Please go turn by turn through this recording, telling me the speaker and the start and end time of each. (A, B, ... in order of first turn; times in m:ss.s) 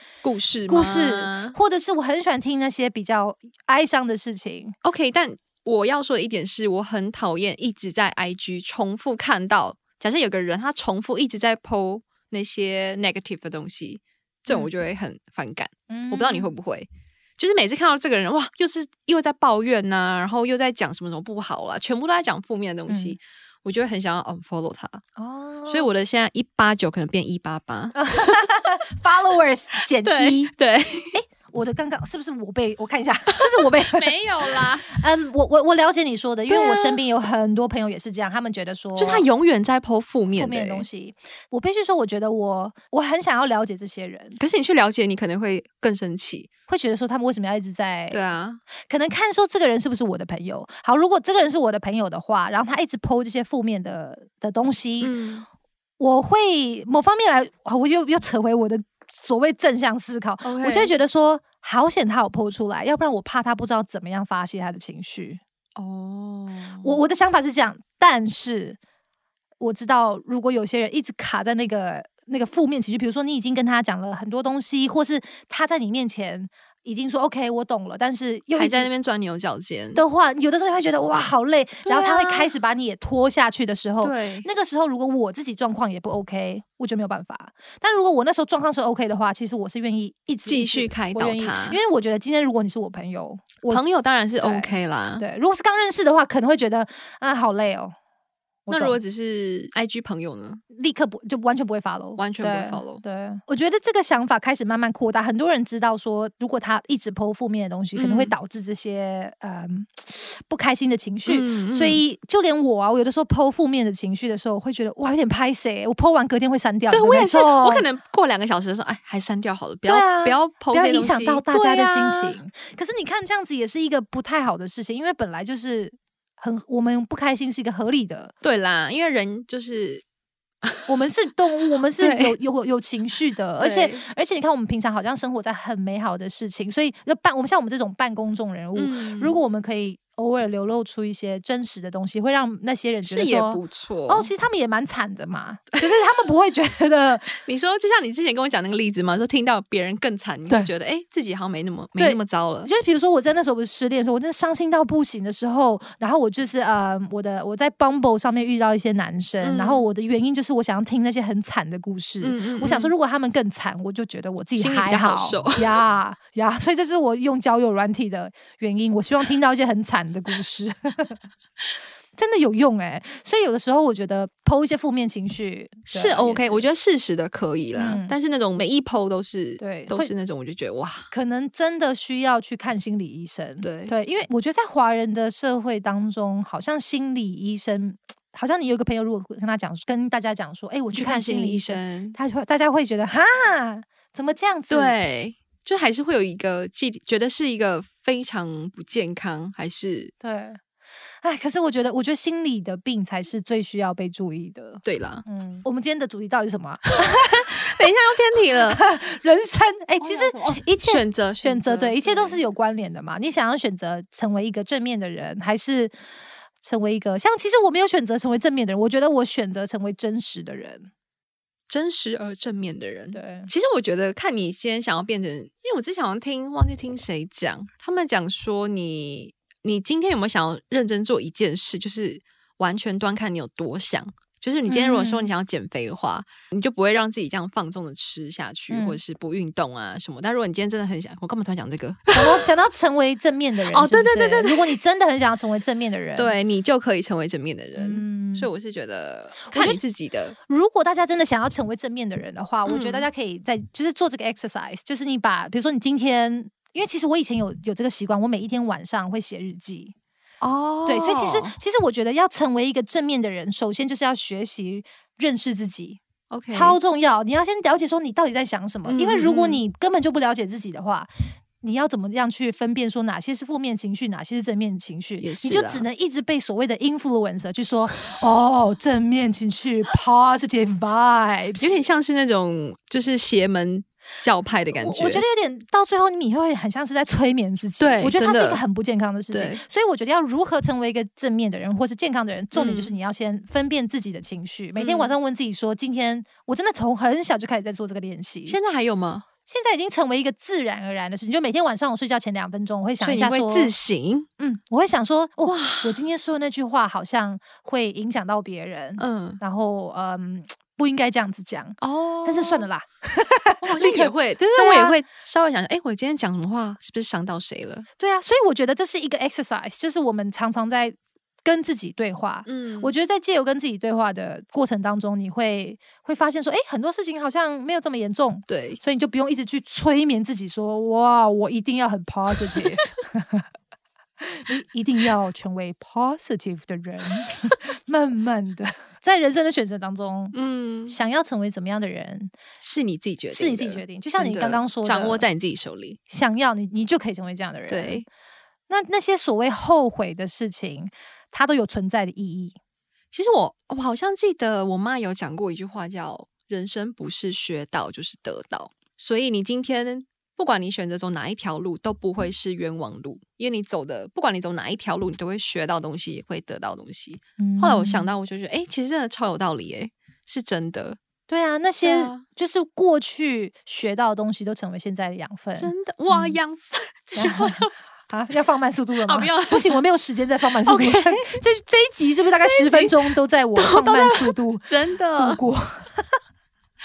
0:00.2-0:01.6 A
0:00.7-0:04.8 B
0:04.8-0:25.0 A
0:15.9-0:16.5 B
0:22.9-0:23.2 B
0:25.2-0:25.9 B
0:25.7-0:28.5 A
0:28.0-0:30.5 B
0:29.9-0:31.2 A
0:31.1-0:39.3 B
0:33.4-0:34.9 A
0:36.5-0:37.0 A
0:39.0-0:40.9 A
0:40.3-0:44.4 B
0:44.4-0:46.5 A
0:46.7-0:48.3 B
0:48.1-0:48.6 A
0:48.8-0:55.1 B
0:55.0-0:55.5 A
0:56.0-1:05.4 B
1:00.4-1:01.0 A
1:05.8-1:07.0 A
1:06.8-1:08.8 B
1:09.6-1:18.9 B
1:18.6-1:20.0 A
1:20.0-1:33.8 B
1:21.8-1:22.5 A
1:24.0-1:24.5 A
1:30.5-1:31.8 A
1:33.7-1:35.2 A
1:34.4-1:38.0 B
1:38.7-1:39.0 B
1:38.7-1:40.6 A
1:40.7-1:57.9 B
1:42.2-1:43.0 A
1:48.0-1:48.3 A
1:51.3-1:52.0 A
1:56.9-2:02.4 A
1:59.9-2:08.3 B
2:08.4-2:10.0 A
2:10.6-2:10.9 A
2:10.9-2:27.4 B
2:12.0-2:12.4 A
2:13.6-2:14.0 A
2:18.8-2:19.4 A
2:23.0-2:24.3 A
2:27.4-2:32.7 A
2:32.0-2:51.2 B
2:39.4-2:39.8 A
2:42.2-2:42.9 A
2:44.6-2:45.8 A
2:52.2-2:56.7 B
2:55.9-3:01.1 A
2:57.7-2:58.2 B
2:59.6-3:00.1 B
3:01.1-3:15.0 B
3:03.6-3:03.9 A
3:10.9-3:12.2 A
3:14.7-3:20.1 A
3:20.2-3:20.6 B
3:21.2-3:27.5 B
3:24.8-3:25.2 A
3:27.0-3:28.9 A
3:28.7-3:36.0 B
3:30.0-3:32.5 A
3:36.6-3:40.9 B
3:41.7-4:02.5 A
3:43.1-3:43.5 B
3:54.7-3:55.3 B
3:58.7-3:59.0 B
4:02.1-4:06.4 B
4:03.7-4:04.8 A
4:06.2-4:10.4 A
4:07.8-4:08.5 B
4:09.5-4:09.8 B
4:10.5-4:19.9 B
4:12.7-4:13.1 A
4:20.4-4:21.5 A
4:20.9-4:31.1 B
4:26.3-4:26.8 A
4:28.9-4:29.6 A
4:31.6-4:41.7 B
4:35.2-4:35.9 A
4:41.6-4:45.2 A
4:44.8-4:58.6 B
4:47.8-4:48.6 A
4:49.3-4:49.6 A
4:52.5-4:53.0 A
4:54.8-4:55.1 A
4:58.5-4:59.3 A
4:59.5-5:03.7 B
5:03.0-5:04.3 A
5:04.4-5:15.0 B
5:05.4-5:06.0 A
5:09.0-5:09.4 A
5:11.8-5:12.7 A
5:13.6-5:17.9 A
5:18.0-5:33.5 B
5:22.5-5:22.9 A
5:28.5-5:28.8 A
5:32.5-5:32.8 A
5:34.2-5:40.4 B
5:40.3-5:41.0 A
5:40.9-5:42.3 B
5:42.6-5:46.0 A
5:43.3-5:45.3 B
5:46.1-5:48.0 B
5:47.7-5:48.0 A
5:48.7-5:52.6 B
5:53.1-6:11.0 A
6:07.4-6:08.1 B
6:11.3-6:16.4 B
6:11.8-6:12.2 A
6:15.6-6:17.7 A
6:17.2-6:26.2 B
6:19.0-6:19.8 A
6:20.6-6:21.4 A
6:22.4-6:25.4 A